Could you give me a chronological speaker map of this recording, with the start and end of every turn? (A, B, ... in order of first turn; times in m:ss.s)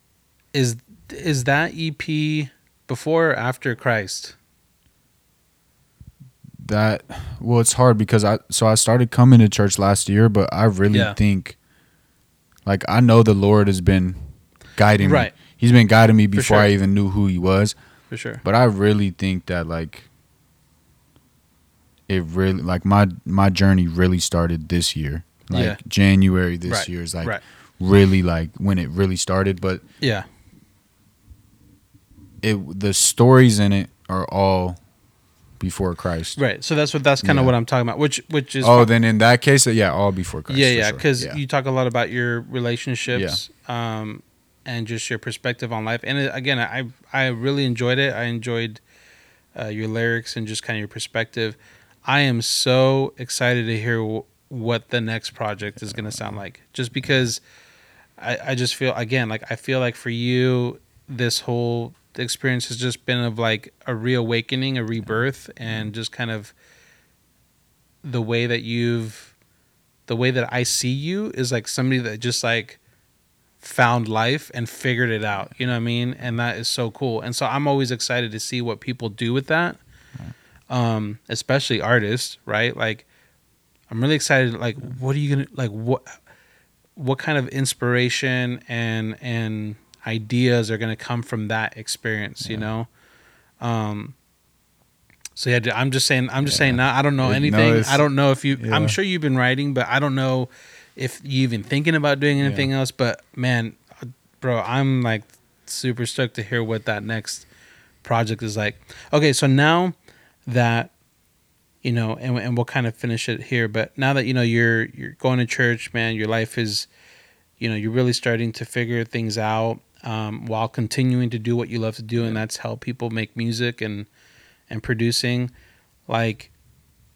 0:00.5-0:04.4 A
0:06.6-0:11.6 B
0:10.9-0:11.2 A
0:12.6-0:17.7 B
0:15.0-0:15.3 A
0:16.3-0:16.7 A
0:18.1-0:18.4 A
0:18.4-0:20.1 B
0:22.1-0:29.8 B
0:25.5-0:25.8 A
0:26.6-0:27.4 A
0:30.0-0:30.3 A
0:32.4-0:34.8 B
0:35.6-0:36.4 B
0:36.4-0:38.9 A
0:37.2-0:37.6 B
0:38.6-0:41.4 B
0:40.5-0:48.8 A
0:43.1-0:43.4 B
0:49.5-0:57.4 A
0:55.9-0:56.2 B
0:58.2-1:06.5 A
1:05.6-1:05.9 B
1:08.0-1:09.3 A
1:10.1-1:12.8 A
1:13.6-1:19.8 A
1:20.7-1:23.0 A
1:23.9-1:26.2 A
1:26.9-1:32.9 A
1:33.6-1:34.1 A
1:35.4-1:47.4 A
1:36.4-1:39.0 B
1:42.4-1:42.7 B
1:48.0-1:49.9 A
1:50.4-1:50.9 A
1:51.8-1:56.9 A
1:57.6-2:04.1 A
2:04.7-2:05.5 A
2:06.1-2:06.5 A